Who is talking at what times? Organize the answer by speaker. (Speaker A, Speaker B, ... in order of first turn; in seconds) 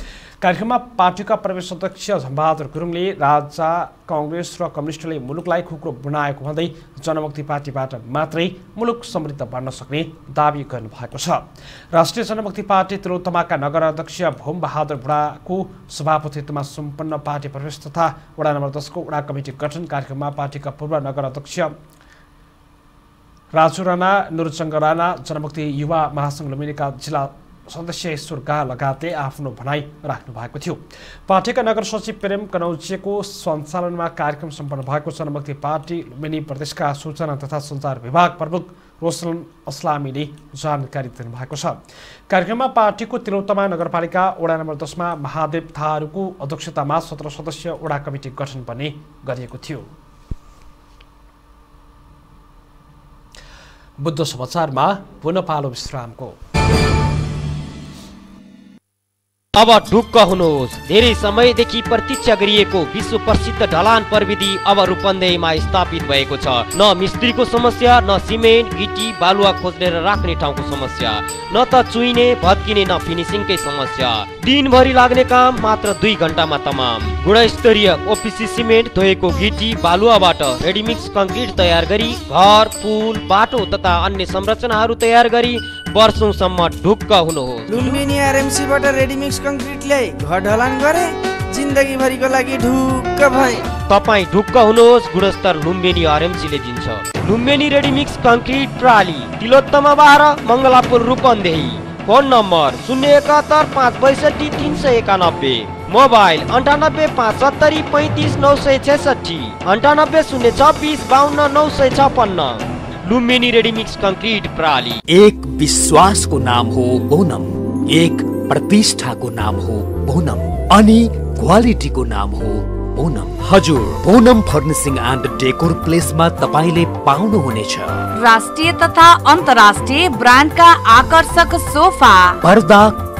Speaker A: 0.4-21.7, 23.5-41.8, 42.3-49.9, 54.0-56.4
Speaker B: 59.5-88.0, 93.9-115.0
Speaker C: 87.7-93.6
Speaker D: 115.1-128.1, 132.4-133.0
Speaker E: 128.2-132.4